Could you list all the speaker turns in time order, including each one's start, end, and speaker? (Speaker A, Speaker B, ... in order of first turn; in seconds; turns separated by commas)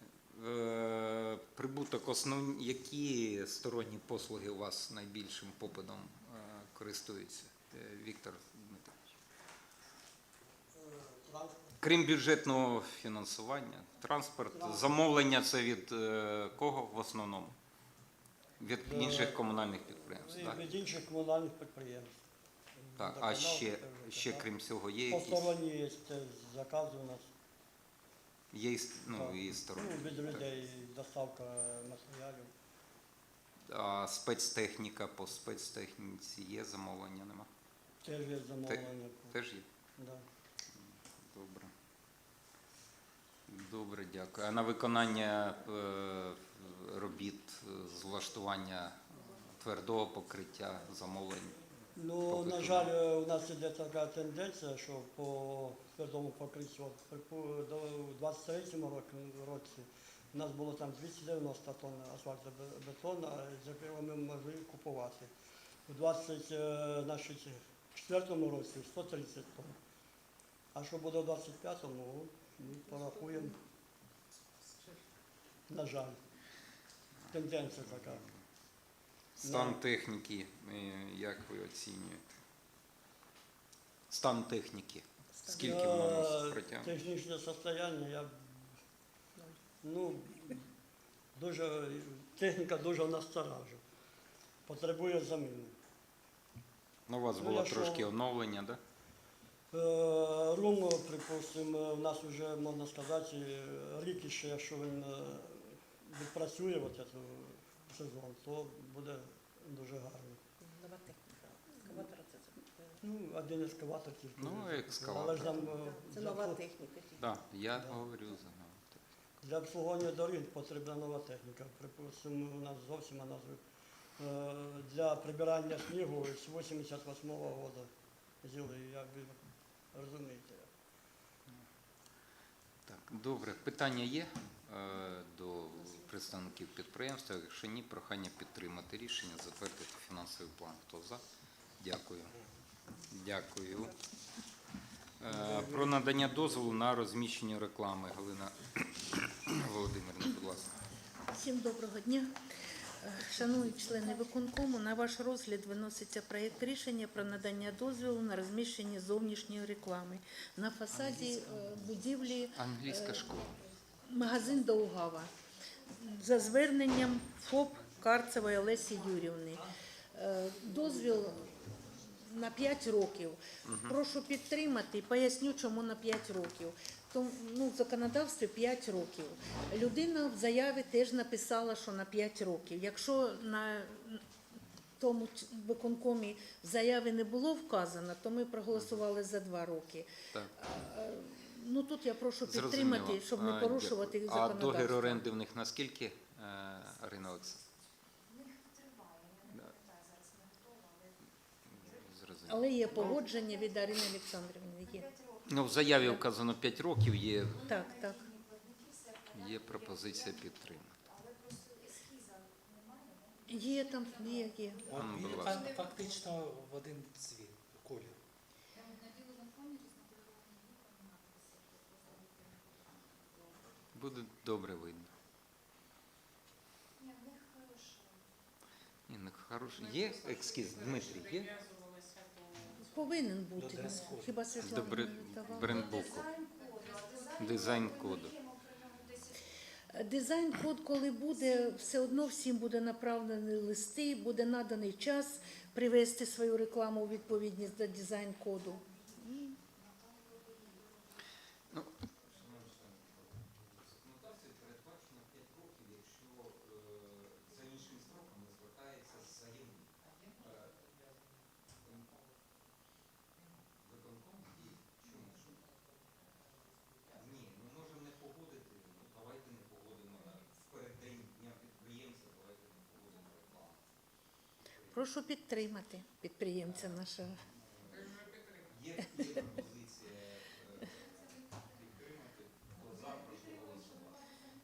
Speaker A: 0.3-9.2, Speaker B: 10.7-11.8, Speaker A: 11.8-17.6, Speaker B: 14.5-14.9, Speaker A: 18.6-20.7, Speaker B: 18.8-19.4, Speaker B: 20.0-22.2, Speaker B: 22.8-24.4, Speaker A: 23.0-25.5, Speaker B: 25.1-27.3, Speaker A: 28.5-30.5, Speaker B: 29.1-32.5, Speaker A: 33.7-37.5, Speaker B: 38.0-39.4, Speaker A: 38.6-39.7, Speaker B: 40.0-40.2, Speaker A: 40.8-41.7, Speaker A: 43.5-51.6, Speaker B: 51.9-65.3, Speaker A: 52.3-52.9, Speaker B: 65.9-69.8, Speaker B: 70.7-73.6, Speaker B: 75.7-76.2, Speaker B: 77.3-78.2, Speaker A: 77.6-78.2, Speaker A: 79.4-82.4, Speaker B: 79.4-79.8, Speaker A: 84.1-87.0, Speaker B: 85.5-88.6, Speaker B: 89.8-90.7, Speaker B: 91.4-93.8, Speaker B: 94.7-95.8, Speaker A: 97.1-98.8, Speaker B: 97.4-98.1, Speaker B: 99.7-110.4, Speaker C: 110.6-113.0, Speaker B: 113.0-116.6, Speaker A: 114.4-115.8, Speaker C: 115.8-117.4, Speaker A: 117.2-119.0, Speaker B: 119.4-123.6, Speaker B: 124.2-127.9, Speaker B: 128.4-129.4, Speaker B: 129.9-130.7, Speaker A: 132.9-141.2, Speaker A: 141.8-142.4, Speaker A: 143.1-143.9, Speaker A: 145.2-150.8, Speaker B: 145.3-146.3, Speaker D: 151.3-152.3, Speaker D: 153.0-163.3, Speaker A: 162.6-163.5, Speaker D: 164.0-165.3, Speaker D: 165.9-184.2, Speaker A: 173.7-174.0, Speaker D: 185.0-195.2, Speaker A: 192.4-197.6, Speaker A: 201.7-203.2, Speaker D: 202.5-205.1, Speaker A: 205.4-207.7, Speaker D: 207.7-208.3, Speaker A: 209.3-211.0, Speaker D: 213.5-214.9, Speaker E: 214.9-218.2, Speaker A: 214.9-215.7, Speaker A: 223.9-225.1, Speaker A: 229.1-231.6, Speaker D: 232.8-236.2, Speaker E: 233.6-234.4, Speaker A: 234.6-236.3, Speaker A: 237.2-238.4, Speaker D: 239.9-249.6, Speaker A: 251.7-260.9, Speaker A: 261.8-262.1, Speaker A: 263.8-265.6, Speaker A: 267.1-273.8, Speaker A: 274.8-275.0, Speaker D: 274.9-277.4, Speaker A: 276.6-284.3